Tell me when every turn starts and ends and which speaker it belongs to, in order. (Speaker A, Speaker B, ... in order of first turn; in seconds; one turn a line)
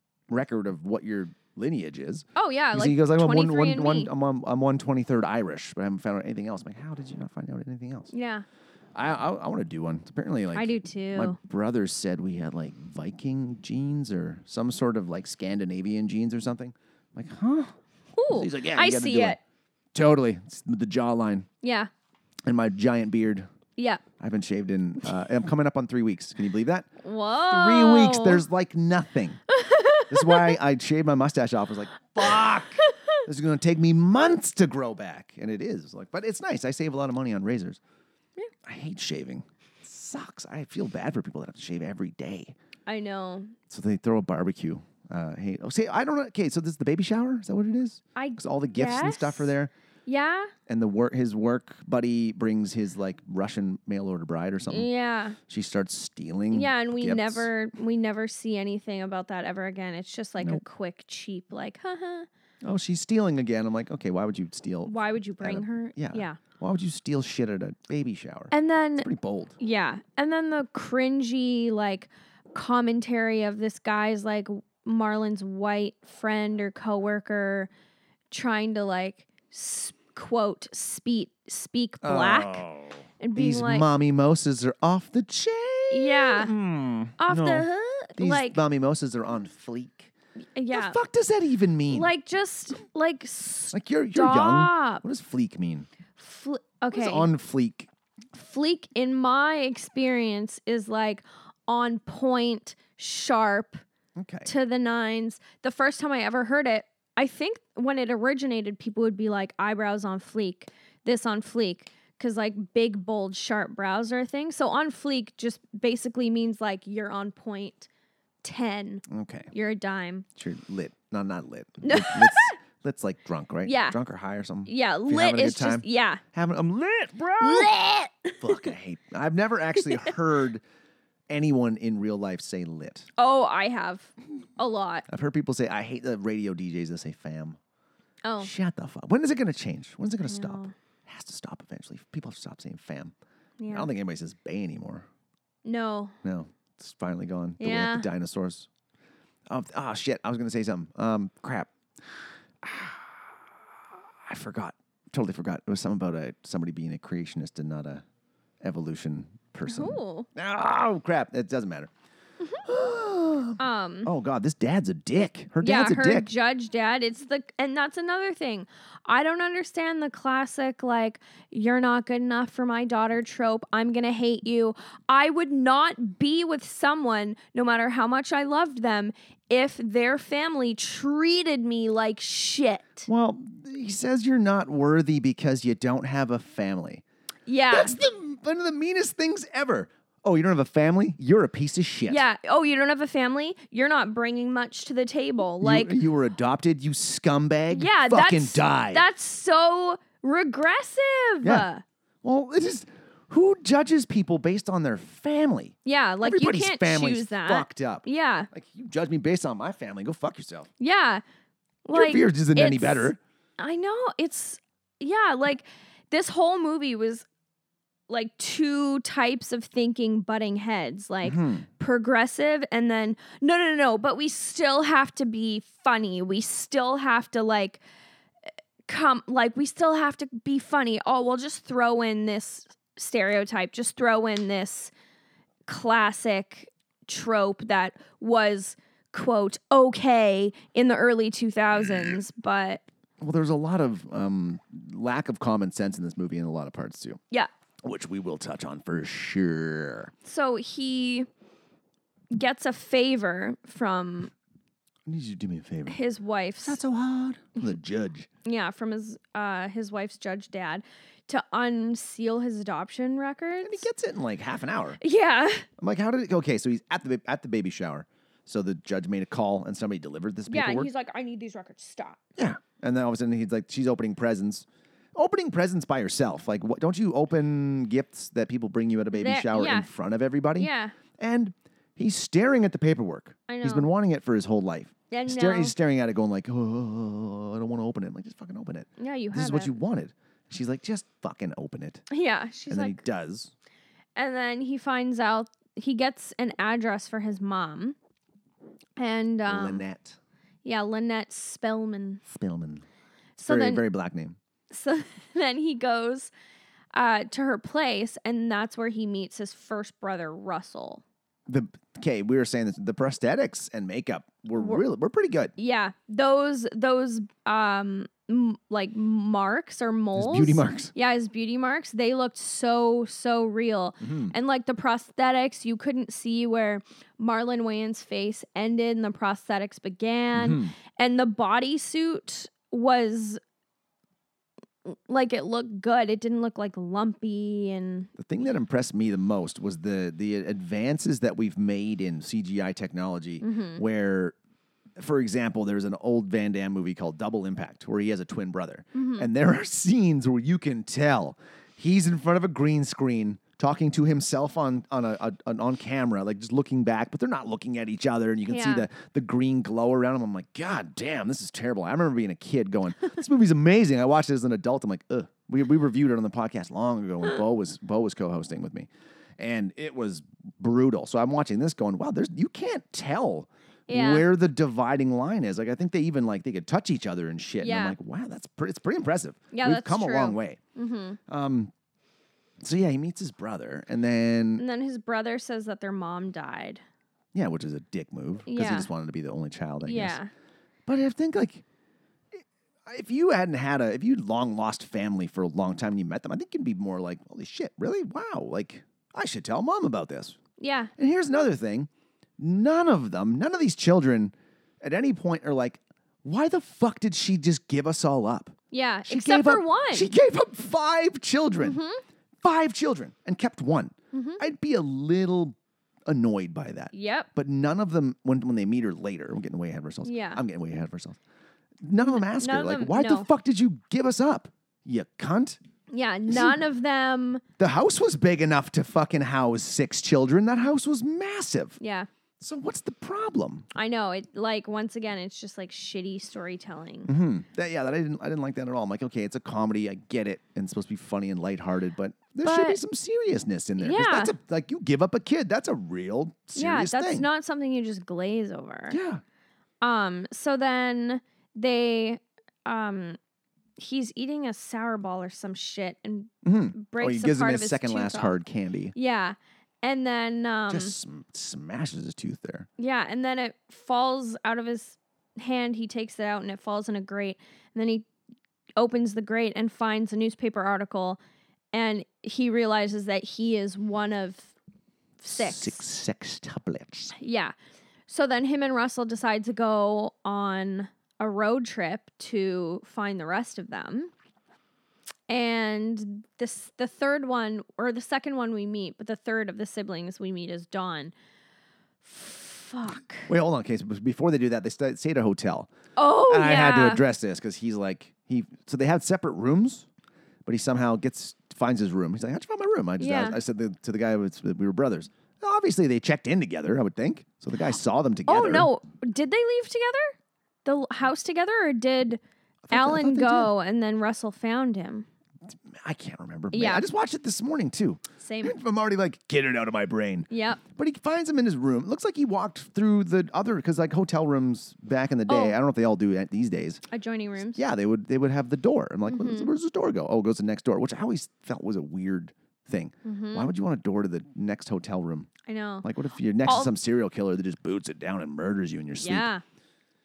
Speaker A: 0.3-8.1
Speaker B: 2.4-4.1
Speaker B: 8.1-8.4
Speaker A: 8.9-17.8
Speaker B: 10.5-11.4
Speaker B: 18.1-19.4
Speaker A: 18.3-19.4
Speaker A: 19.9-21.5
Speaker B: 21.6-21.9
Speaker A: 22.4-23.5
Speaker B: 23.8-24.0
Speaker A: 24.2-26.9
Speaker B: 27.0-28.4
Speaker A: 27.5-29.4
Speaker B: 29.5-30.6
Speaker A: 30.1-37.8
Speaker B: 32.2-33.1
Speaker A: 38.6-42.5
Speaker B: 42.9-43.5
Speaker A: 43.7-49.7
Speaker B: 48.1-49.5
Speaker B: 50.0-50.5
Speaker A: 50.7-54.9
Speaker B: 54.7-55.4
Speaker A: 55.5-57.5
Speaker B: 56.5-62.3
Speaker A: 62.6-69.6
Speaker B: 64.8-66.4
Speaker B: 68.5-77.7
Speaker B: 78.3-82.6
Speaker A: 82.0-90.1
Speaker B: 83.2-83.8
Speaker B: 85.9-86.5
Speaker B: 87.2-88.6
Speaker B: 90.5-91.0
Speaker A: 90.7-92.1
Speaker B: 91.9-95.0
Speaker A: 93.7-95.9
Speaker B: 96.2-97.3
Speaker A: 96.9-97.9
Speaker B: 98.3-103.8
Speaker A: 104.2-104.5
Speaker B: 104.5-117.9
Speaker B: 118.4-120.2
Speaker A: 119.1-119.5
Speaker A: 120.3-127.7
Speaker B: 121.8-122.5
Speaker B: 123.6-124.0
Speaker B: 124.7-126.2
Speaker B: 127.4-128.7
Speaker A: 128.4-130.6
Speaker A: 131.3-133.1
Speaker B: 133.2-135.0
Speaker A: 135.1-137.6
Speaker B: 138.2-138.5
Speaker A: 138.4-143.1
Speaker B: 140.3-140.7
Speaker B: 143.6-143.9
Speaker A: 143.7-145.1
Speaker B: 145.6-146.1
Speaker A: 146.2-148.7
Speaker B: 147.6-148.1
Speaker A: 149.5-151.7
Speaker A: 152.6-153.3
Speaker A: 154.2-158.0
Speaker A: 158.6-161.9
Speaker B: 159.7-160.3
Speaker A: 162.6-166.3
Speaker B: 163.6-164.1
Speaker B: 165.6-183.1
Speaker A: 183.1-187.0
Speaker B: 187.4-188.0
Speaker A: 187.7-192.2
Speaker B: 192.1-195.9
Speaker A: 195.6-199.1
Speaker B: 197.7-201.8
Speaker A: 201.4-201.7
Speaker A: 202.2-210.7
Speaker B: 205.8-208.5
Speaker B: 210.8-211.2
Speaker B: 211.8-217.2
Speaker A: 211.9-213.2
Speaker B: 218.1-227.8
Speaker A: 221.2-221.7
Speaker B: 228.8-234.9
Speaker B: 235.7-242.8
Speaker A: 243.2-247.2
Speaker A: 247.8-250.1
Speaker B: 250.2-251.3
Speaker B: 252.3-254.3
Speaker A: 255.1-256.0
Speaker B: 255.9-256.8
Speaker A: 256.6-258.3
Speaker B: 258.4-263.9
Speaker A: 263.6-265.0
Speaker B: 265.0-265.7
Speaker A: 265.8-270.9
Speaker B: 270.5-272.2
Speaker A: 272.4-292.0
Speaker B: 279.1-279.9
Speaker B: 280.6-280.9
Speaker B: 283.5-283.9
Speaker B: 285.1-285.8
Speaker B: 289.0-289.7
Speaker B: 292.1-293.0
Speaker A: 292.7-293.5
Speaker B: 294.1-298.0
Speaker B: 299.0-299.8
Speaker A: 299.4-300.2
Speaker B: 300.6-302.2
Speaker A: 302.2-302.8
Speaker B: 303.4-303.8
Speaker A: 303.4-304.4
Speaker B: 304.7-306.3
Speaker B: 306.9-311.0
Speaker A: 311.5-315.5
Speaker B: 314.6-314.8
Speaker B: 315.6-333.4
Speaker A: 320.1-320.9
Speaker A: 324.0-324.3
Speaker A: 330.3-330.8
Speaker B: 334.9-338.1
Speaker A: 338.2-344.4
Speaker B: 343.4-343.8
Speaker A: 345.0-368.9
Speaker B: 348.9-349.3
Speaker B: 358.4-358.9
Speaker A: 369.4-380.6
Speaker B: 373.9-374.2
Speaker B: 377.6-378.0
Speaker B: 379.5-381.2
Speaker A: 381.3-381.7
Speaker A: 382.6-384.6
Speaker B: 384.6-386.8
Speaker A: 387.3-390.2
Speaker B: 388.5-388.9
Speaker B: 389.8-390.3
Speaker A: 390.9-391.6
Speaker A: 392.4-400.4
Speaker B: 400.6-400.9
Speaker A: 401.0-411.8
Speaker B: 408.7-410.1
Speaker B: 411.6-412.0
Speaker A: 412.4-415.6
Speaker B: 414.1-414.4
Speaker A: 416.1-421.2
Speaker B: 416.9-417.3
Speaker B: 420.0-420.4
Speaker A: 421.8-425.6
Speaker B: 422.0-423.3
Speaker B: 425.9-427.4
Speaker A: 427.6-431.8
Speaker B: 431.8-432.1
Speaker A: 432.4-433.7
Speaker B: 433.7-437.1
Speaker A: 437.1-447.3
Speaker B: 442.4-442.8
Speaker B: 443.8-444.3
Speaker B: 446.5-449.0
Speaker A: 448.9-449.2
Speaker B: 449.8-453.2
Speaker B: 453.8-458.4
Speaker A: 456.4-458.9
Speaker B: 458.9-460.9
Speaker A: 460.7-462.7
Speaker B: 462.8-468.1
Speaker B: 468.8-471.2
Speaker B: 471.7-474.5
Speaker B: 475.2-475.8
Speaker A: 475.3-477.1
Speaker B: 477.2-477.5
Speaker B: 478.1-484.1
Speaker B: 485.3-491.1
Speaker B: 492.0-493.3
Speaker A: 493.2-495.7
Speaker B: 495.9-497.0
Speaker A: 496.3-499.9
Speaker A: 500.4-508.7
Speaker B: 503.0-503.4
Speaker B: 508.3-515.1
Speaker A: 512.7-513.5
Speaker A: 515.5-526.8
Speaker B: 516.5-516.8
Speaker B: 518.2-518.5
Speaker B: 520.3-520.6
Speaker B: 525.3-525.6
Speaker B: 526.9-527.6
Speaker A: 527.5-535.3
Speaker B: 529.1-529.5
Speaker B: 533.0-533.5
Speaker B: 535.5-535.9
Speaker A: 535.8-539.3
Speaker B: 536.4-536.7
Speaker B: 539.0-539.4